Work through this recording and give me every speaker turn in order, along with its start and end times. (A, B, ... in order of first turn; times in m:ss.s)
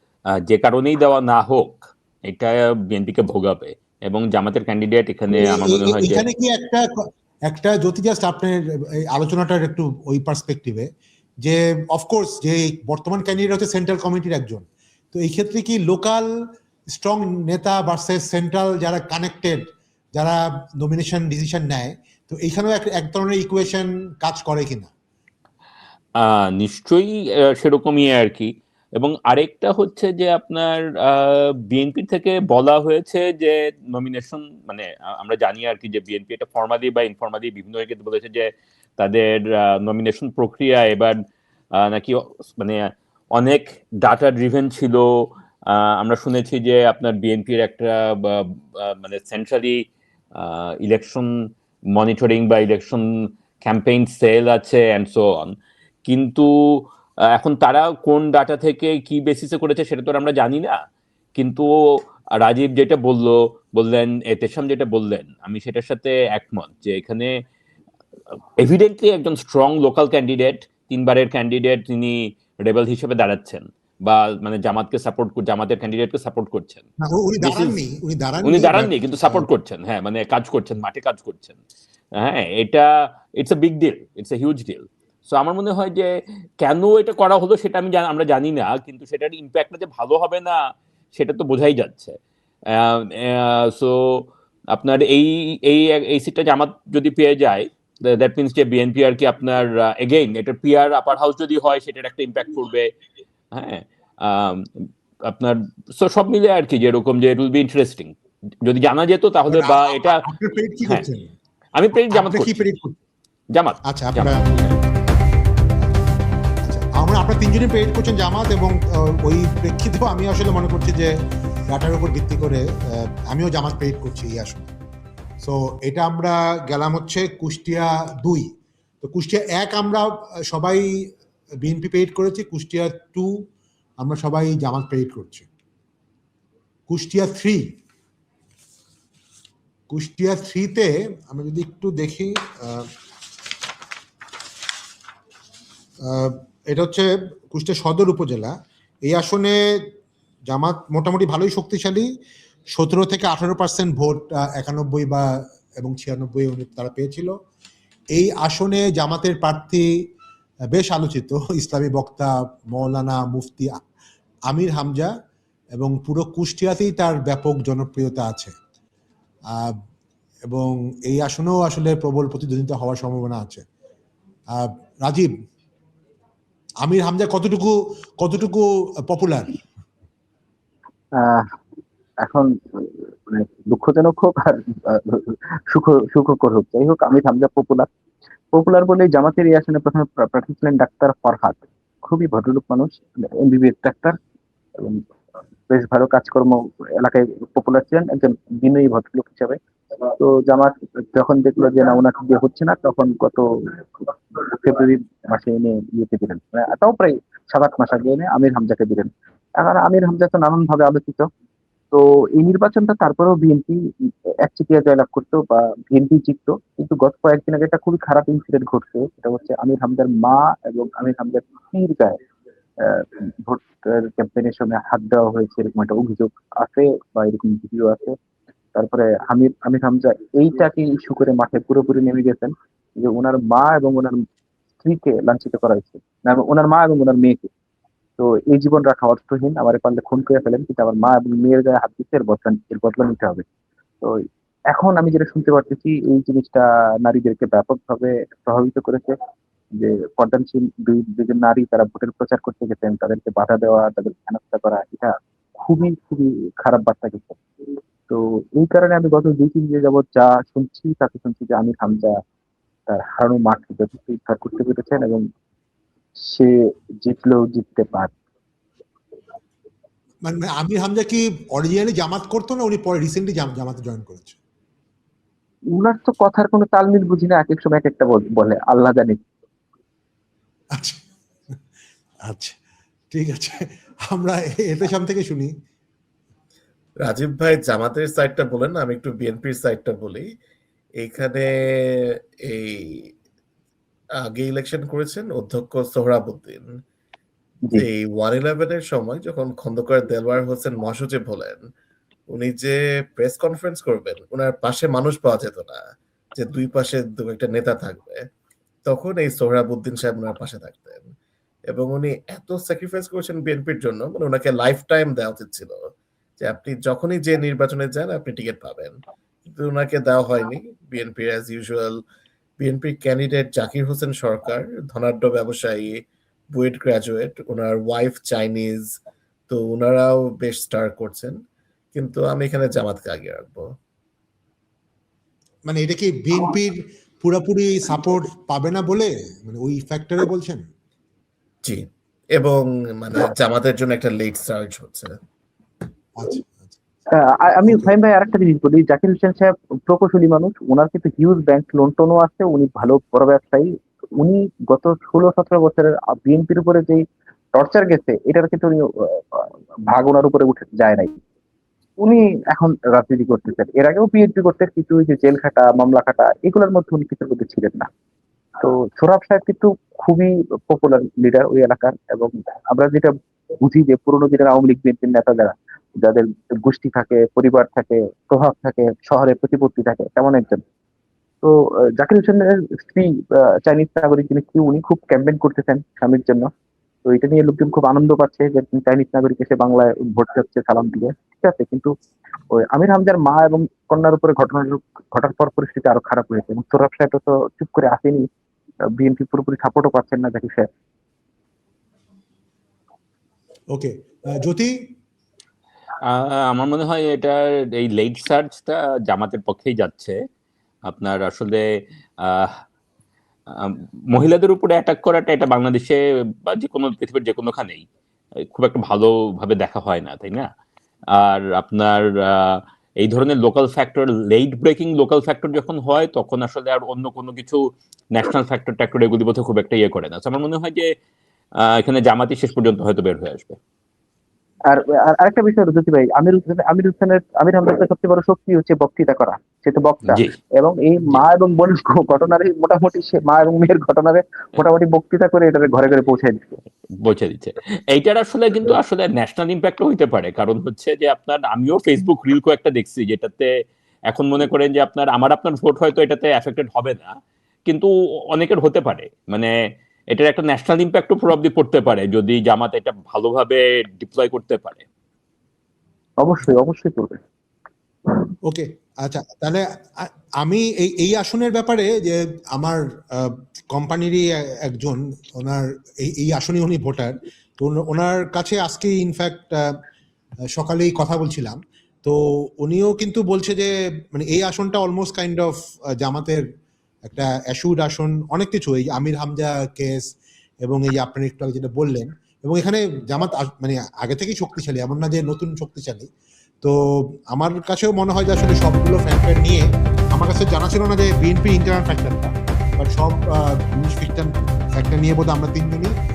0:00.5-0:06.2 A
0:05.3-0:10.9 B
0:11.4-0:16.3 B
0:16.9-0:24.9 B
0:26.2-0:41.2 A
0:41.7-0:49.8 A
0:50.3-0:51.3 A
0:51.9-0:53.1 A
0:53.6-0:55.5 A
0:56.0-1:00.8 A
1:01.4-1:01.7 A
1:02.4-1:07.4 A
1:08.6-1:16.8 A
1:17.0-1:19.4 B
1:17.4-1:17.8 A
1:18.4-1:21.6 A
1:22.2-1:30.6 A
1:31.1-1:32.2 A
1:32.7-1:42.9 A
1:43.5-1:50.2 A
1:49.4-1:51.3 B
1:51.7-1:52.6 A
1:52.1-1:53.0 B
1:53.5-1:55.0 A
1:53.9-1:54.4 B
1:56.6-2:04.7 B
2:05.4-2:08.5 B
2:09.0-2:10.9 B
2:11.6-2:13.4 B
2:14.0-2:15.5 B
2:16.9-2:17.7 B
2:19.9-2:22.9 B
2:26.0-2:29.9 B
2:30.5-2:32.1 B
2:32.8-2:37.3 B
2:38.2-2:39.9 B
2:40.7-2:43.8 B
2:44.5-2:45.1 B
2:45.8-2:48.5 B
2:49.5-2:49.8 B
2:50.5-2:53.6 B
2:54.5-2:55.3 B
2:56.8-2:59.6 B
3:01.2-3:01.4 C
3:02.2-3:07.9 C
3:08.5-3:14.2 C
3:15.7-3:19.6 C
3:20.2-3:31.3 C
3:31.9-3:42.2 C
3:42.8-3:48.1 C
3:48.7-3:54.2 C
3:54.8-3:57.5 C
3:58.2-4:03.4 C
4:04.7-4:09.1 C
4:09.8-4:17.4 C
4:18.1-4:22.2 C
4:22.9-4:25.2 C
4:26.2-4:28.1 C
4:30.2-4:34.4 B
4:35.7-4:39.2 C
4:40.7-4:41.0 B
4:42.2-4:42.6 B
4:43.1-4:45.5 B
4:47.0-4:50.2 D
4:51.0-4:53.1 D
4:54.2-4:56.7 D
4:57.8-5:01.6 D
5:02.3-5:05.8 D
5:06.4-5:08.2 D
5:08.9-5:11.0 D
5:11.7-5:15.8 D
5:16.4-5:18.9 D
5:19.5-5:21.9 D
5:22.6-5:25.9 D
5:26.5-5:28.9 D
5:29.5-5:31.3 D
5:31.9-5:33.6 D
5:35.7-5:40.6 B
5:42.3-5:45.1 D
5:46.2-5:46.8 B
5:47.1-5:57.0 C
5:57.5-6:01.1 C
6:02.0-6:07.9 C
6:08.6-6:20.6 C
6:21.4-6:26.5 C
6:27.0-6:31.9 C
6:32.5-6:38.2 C
6:38.9-6:40.6 C
6:43.7-6:44.8 B
6:46.1-6:50.2 A
6:50.9-6:51.6 A
6:52.2-6:52.6 A
6:53.5-6:57.8 A
6:58.5-7:00.5 A
7:01.1-7:10.9 A
7:11.6-7:13.6 A
7:14.7-7:26.6 C
7:27.0-7:33.5 A
7:34.1-7:39.5 A
7:40.1-7:44.8 A
7:46.2-7:47.2 C
7:48.4-7:59.8 B
8:00.5-8:06.4 B
8:07.0-8:10.1 B
8:10.6-8:16.1 B
8:16.6-8:26.0 B